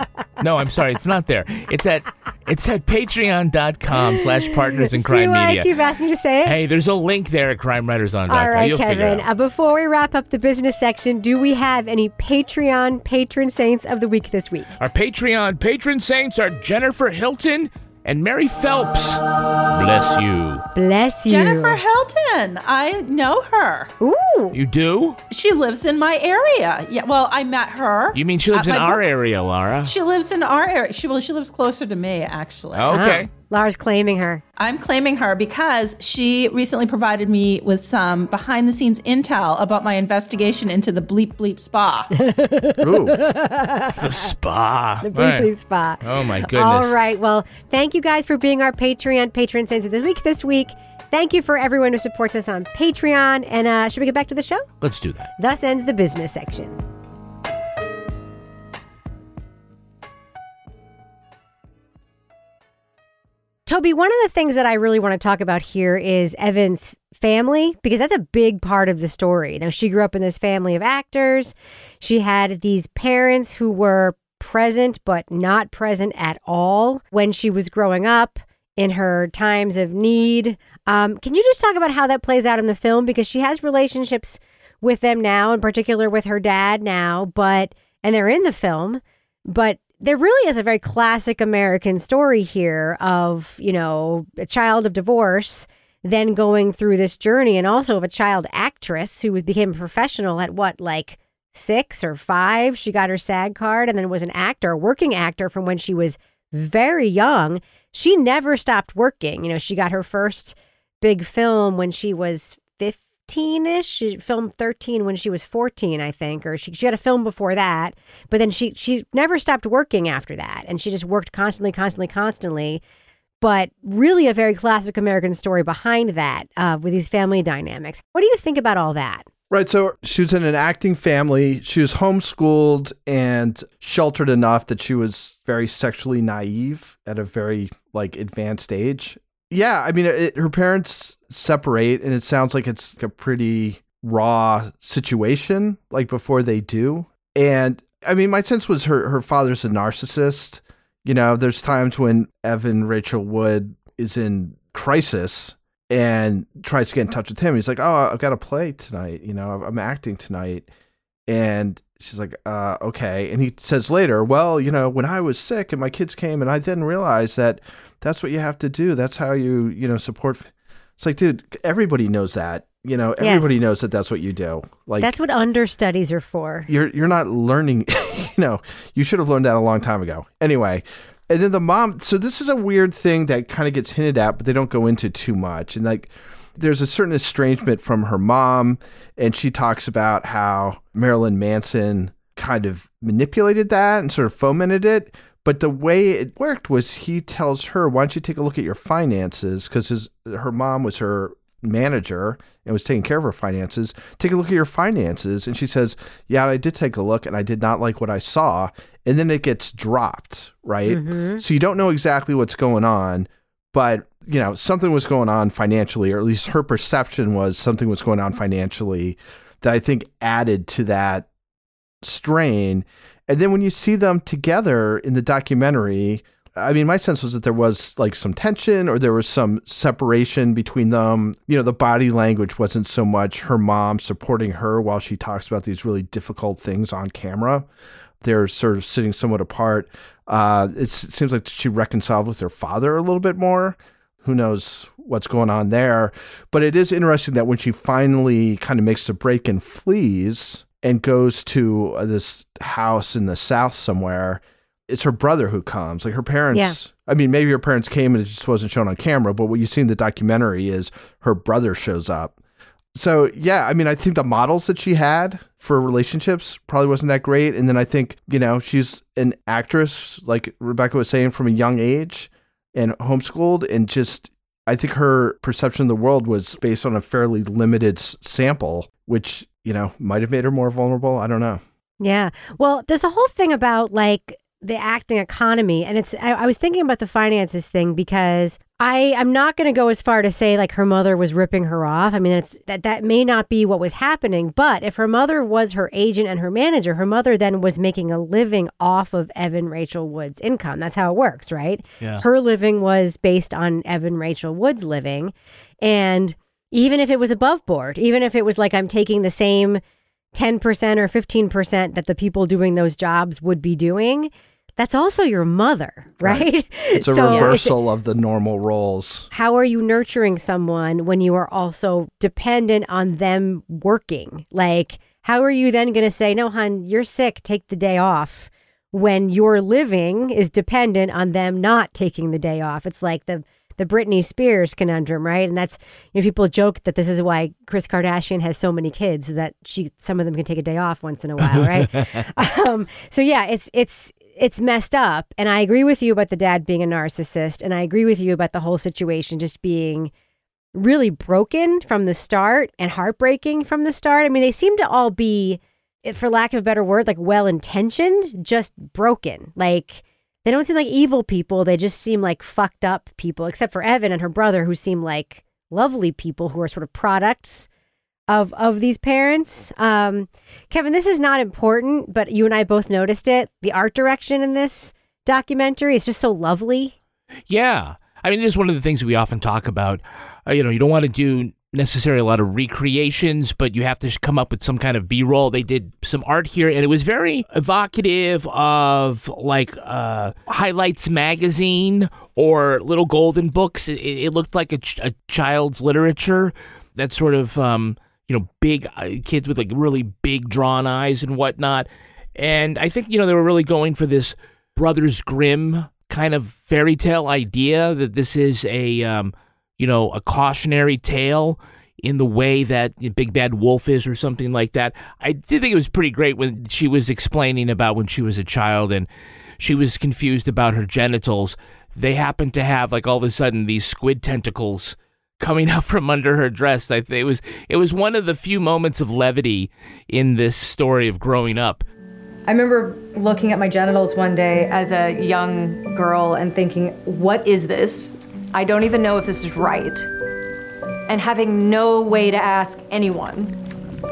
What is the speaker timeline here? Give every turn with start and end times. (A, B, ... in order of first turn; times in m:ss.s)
0:00.4-0:05.7 A
0:04.5-0:06.6 B
0:06.4-0:09.3 A
0:08.3-0:14.7 B
0:14.8-0:20.6 A
0:20.8-0:21.8 B
0:21.3-0:23.9 C
0:24.0-0:24.6 B
0:24.5-0:25.2 A
0:25.3-0:29.0 C
0:28.1-0:29.9 A
0:29.8-0:33.0 C
0:32.7-0:33.3 A
0:32.9-0:34.4 B
0:34.6-0:42.1 C
0:42.1-0:44.3 B
0:42.8-0:43.2 D
0:43.9-0:45.5 A
0:45.0-0:54.7 B
0:46.0-0:47.0 A
0:54.8-0:55.3 A
0:55.4-0:56.8 B
1:03.7-2:02.8 B
2:03.4-2:09.3 B
2:09.5-2:40.7 D
2:41.3-2:55.1 D
2:53.2-2:53.6 B
2:55.0-2:56.7 B
2:56.7-3:41.3 D
3:30.9-3:31.4 B
3:42.0-3:57.7 D
3:58.2-4:22.4 D
4:23.0-4:41.6 D
4:42.0-5:09.8 B
5:10.3-5:17.8 B
5:16.2-5:19.3 D
5:19.3-5:50.1 B
5:50.7-6:07.7 B
6:08.3-6:17.0 B
6:17.5-7:11.8 A
7:12.5-7:20.1 E
7:21.1-7:23.6 E